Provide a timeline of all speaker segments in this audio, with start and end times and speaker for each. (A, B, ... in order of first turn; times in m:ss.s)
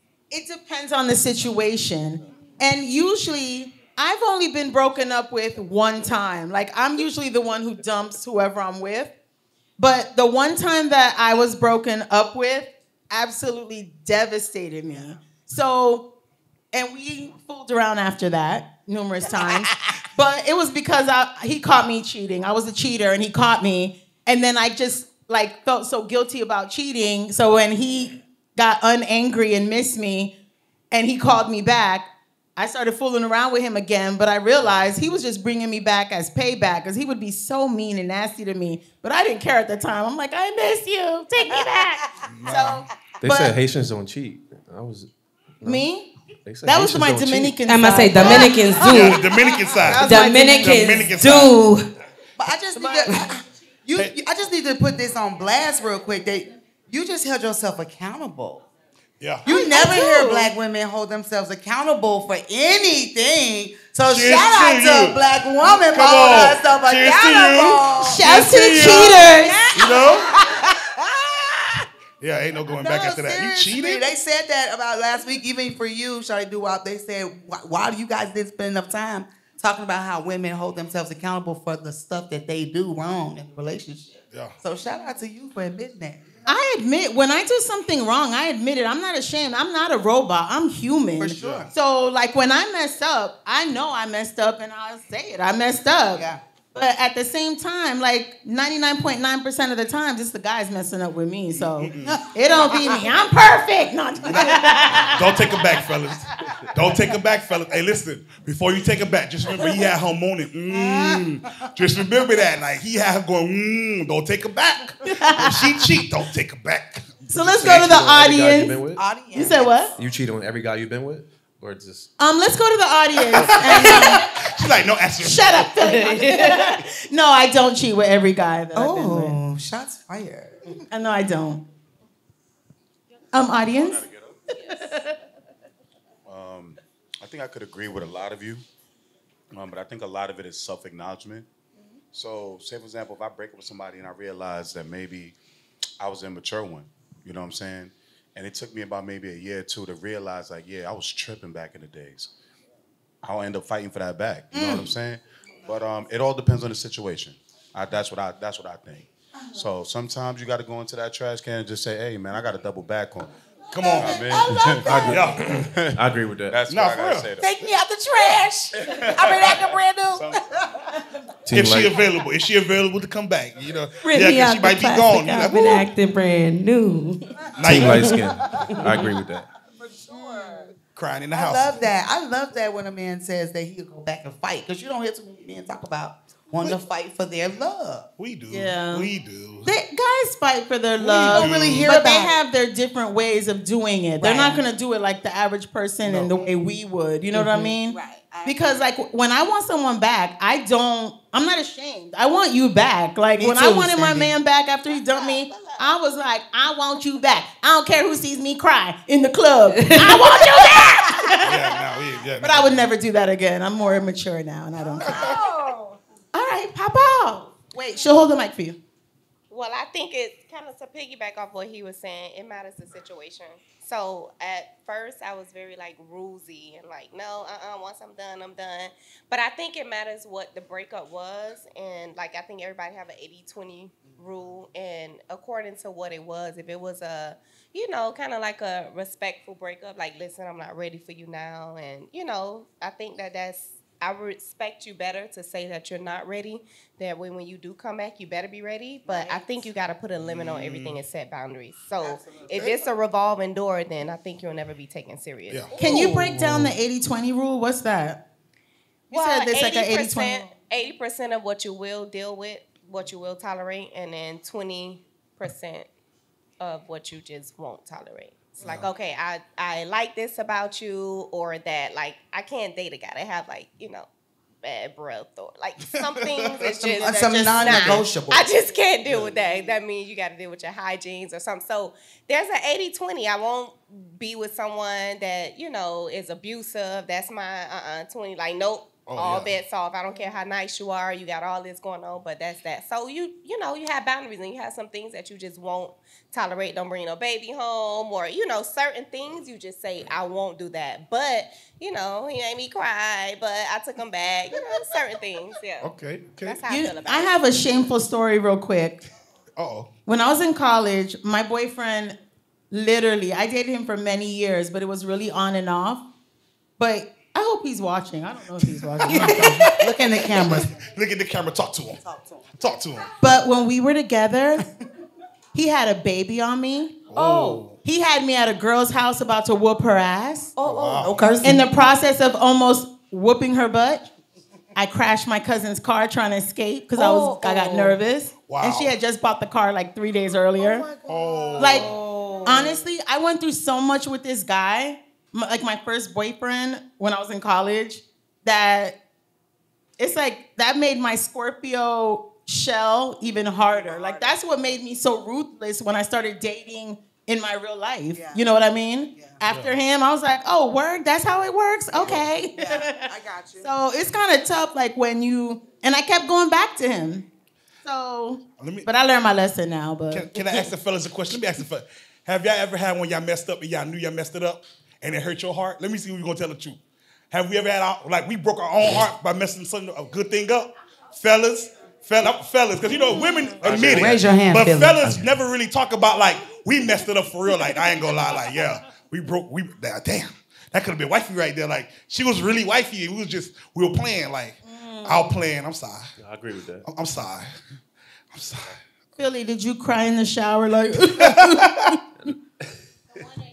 0:00.3-0:09.1 A
0:09.8-0:16.1 A
0:16.7-0:30.3 A
0:19.3-0:19.8 B
0:30.9-0:42.8 A
0:42.3-0:42.8 C
0:43.2-0:45.1 D
0:43.2-0:43.6 B
0:45.6-0:46.1 A
0:46.4-0:47.5 D
0:46.6-0:48.8 A
0:47.6-0:49.2 E
0:48.8-0:51.6 C
0:49.8-0:51.0 A
0:49.9-0:51.8 E
0:52.4-0:58.6 B
0:59.2-0:59.4 C
0:59.4-1:08.3 B
0:59.4-1:00.5 A
1:04.1-1:10.4 C
1:08.0-1:09.7 A
1:08.8-1:11.8 B
1:12.2-1:14.1 C
1:12.7-1:26.4 B
1:26.4-1:45.4 A
1:31.2-1:31.7 B
1:31.4-1:31.7 C
1:36.1-1:36.4 B
1:41.7-1:42.2 C
1:42.0-1:43.0 B
1:44.2-1:57.8 C
1:50.7-1:51.6 B
1:55.1-1:55.9 A
1:57.3-1:58.8 A
1:57.6-1:59.0 D
1:59.0-2:00.0 B
1:59.3-1:59.9 A
2:00.0-2:02.1 D
2:02.2-2:04.3 A
2:03.4-2:05.9 C
2:05.2-2:09.4 A
2:08.7-2:10.5 B
2:10.9-2:11.6 A
2:13.3-2:15.0 A
2:13.8-2:14.4 F
2:16.2-2:18.6 F
2:19.5-2:21.5 F
2:22.1-2:25.4 F
2:26.0-2:32.3 F
2:33.2-2:43.3 F
2:34.5-2:34.9 B
2:43.7-2:45.6 C
2:43.8-2:45.4 B
2:44.0-2:47.4 F
2:45.9-2:46.6 D
2:46.6-2:47.4 C
2:47.4-2:50.4 B
2:48.8-2:49.6 C
2:51.5-2:51.9 D
2:51.5-2:55.9 C
2:54.0-2:58.3 E
2:57.5-2:58.2 C
2:57.6-2:59.4 D
2:59.8-3:00.7 B
3:00.1-3:00.7 A
3:00.9-3:01.8 C
3:01.3-3:08.1 B
3:08.2-3:09.7 C
3:08.5-3:09.1 A
3:09.6-3:31.7 A
3:11.0-3:11.9 C
3:11.3-3:12.4 B
3:14.2-3:14.6 B
3:17.6-3:18.8 B
3:23.4-3:24.3 B
3:25.1-3:25.7 G
3:29.8-3:30.2 E
3:31.4-3:32.9 C
3:32.4-3:35.2 A
3:35.0-3:35.4 C
3:35.1-3:35.7 B
3:36.3-3:38.8 A
3:39.5-4:15.7 G
4:09.0-4:09.6 B
4:10.2-4:11.0 C
4:12.0-4:12.5 B
4:12.5-4:12.8 C
4:15.5-4:16.7 C
4:15.8-4:18.2 A
4:19.1-4:20.5 A
4:19.1-4:25.9 G
4:26.6-4:34.1 G
4:28.6-4:28.9 C
4:34.6-5:05.9 G
4:35.8-4:37.0 C
4:37.0-4:38.5 B
4:37.0-4:38.0 A
4:39.0-4:39.4 C
4:49.0-4:49.5 C
5:05.8-5:06.6 C
5:06.4-5:07.4 G
5:06.7-5:09.0 A
5:09.6-5:09.9 C
5:10.1-5:12.2 A
5:12.7-5:16.0 A
5:16.8-5:19.8 A
5:18.9-5:19.8 C
5:19.1-5:20.7 B
5:20.4-5:22.0 C
5:22.0-5:22.4 B
5:22.6-5:23.1 C
5:23.2-5:24.6 A
5:25.5-5:27.0 A
5:27.1-5:27.8 C
5:27.8-5:30.5 A
5:30.6-5:31.3 C
5:31.0-5:31.6 B
5:31.4-5:34.1 A
5:34.8-5:40.9 A
5:37.0-5:37.9 E
5:38.4-5:38.9 C
5:41.0-5:42.0 C
5:41.6-5:41.8 A
5:42.4-5:49.0 A
5:50.0-6:03.1 A
5:53.7-5:54.4 B
5:58.1-5:58.4 B
5:59.5-5:59.8 C
6:01.9-6:03.7 B
6:03.6-6:07.2 A
6:07.8-6:10.3 A
6:08.6-6:08.9 C
6:10.1-6:16.8 C
6:17.3-6:36.1 C
6:23.6-6:24.3 D
6:23.6-6:25.2 B
6:34.6-6:35.3 A
6:36.2-6:36.8 D
6:36.8-6:37.6 C
6:38.3-6:38.8 C
6:39.2-6:42.0 A
6:41.0-6:42.0 C
6:42.2-6:42.7 D